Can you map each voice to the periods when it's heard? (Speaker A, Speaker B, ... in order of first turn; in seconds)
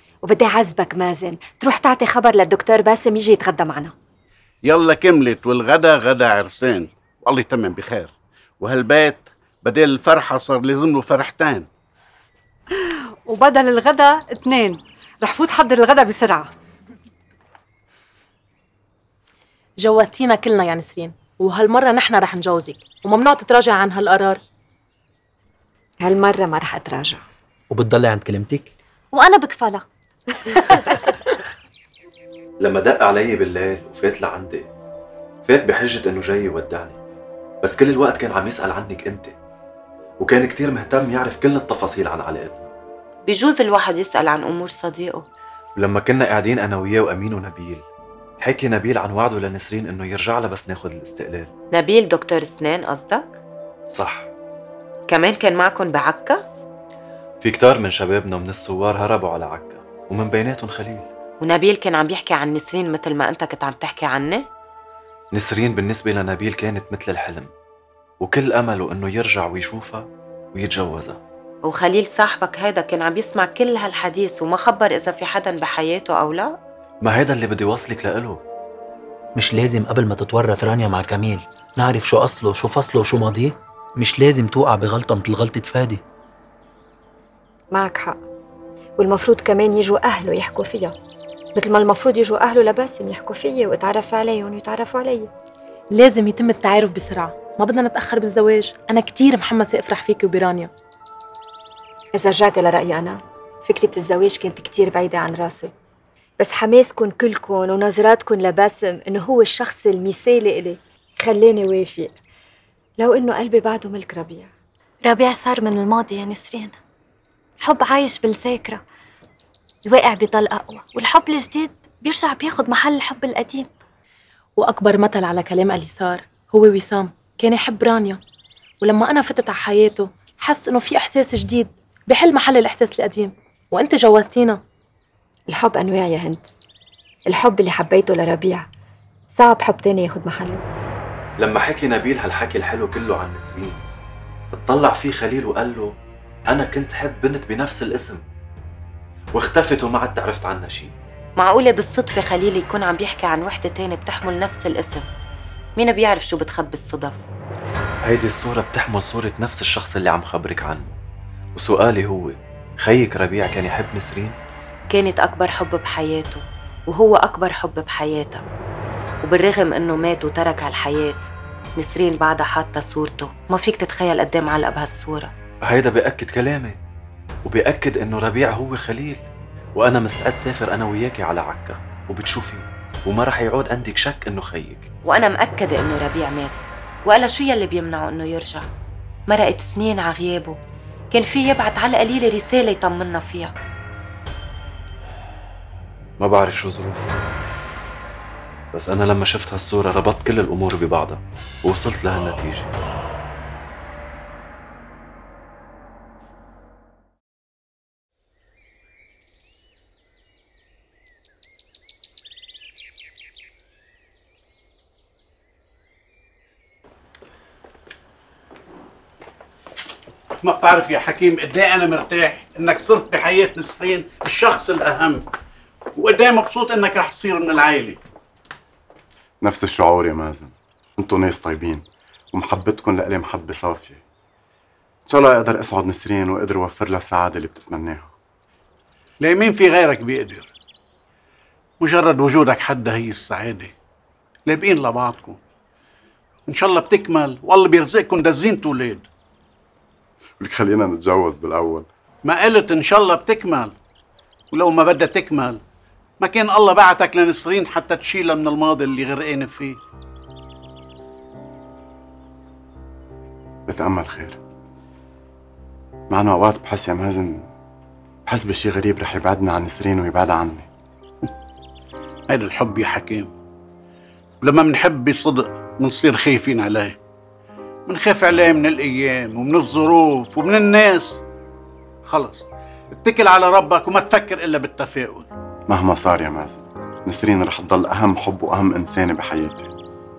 Speaker A: 0.2-3.9, 26.0-27.2, 87.7-88.2, 89.0-90.9, 91.5-95.3, 102.1-105.7, 106.4-112.1, 113.0-114.5, 135.5-136.5, 137.3-138.7, 139.3-140.6
Speaker B: 4.6-11.7, 220.4-225.2, 225.9-228.0, 239.2-240.5, 241.8-243.7, 244.5-245.4, 246.5-249.0, 252.2-253.7, 254.5-255.6, 256.2-259.8, 272.3-273.3, 274.4-277.0, 277.9-281.2, 282.1-285.3
Speaker C: 13.2-16.5
Speaker D: 19.8-24.4, 95.9-100.7, 124.6-128.2, 128.8-134.6
Speaker E: 27.7-28.7, 79.3-86.0
Speaker F: 29.1-29.9, 115.0-116.8, 117.6-118.8, 119.8-123.7
Speaker G: 32.6-34.7, 35.5-37.0, 37.6-39.3, 40.2-42.7, 45.8-47.8, 48.4-51.5, 53.9-54.3, 57.4-61.1, 65.3-67.5, 68.2-71.2, 77.0-78.4, 141.4-143.8, 144.5-145.9, 146.5-148.2, 149.3-150.9, 158.0-161.0, 161.6-164.3, 175.6-176.8, 177.4-179.2, 179.8-184.9, 196.2-197.2, 198.7-202.7
Speaker H: 43.2-45.2, 51.7-53.4, 55.1-56.4, 61.4-64.5, 71.6-76.6, 151.4-155.0, 155.8-157.2, 164.9-168.4, 169.2-175.3, 185.0-188.7, 189.3-190.6, 191.1-193.5
Speaker I: 229.4-234.0, 235.1-238.1, 250.4-251.9, 263.7-264.4, 266.1-267.4, 268.2-270.7, 285.7-289.7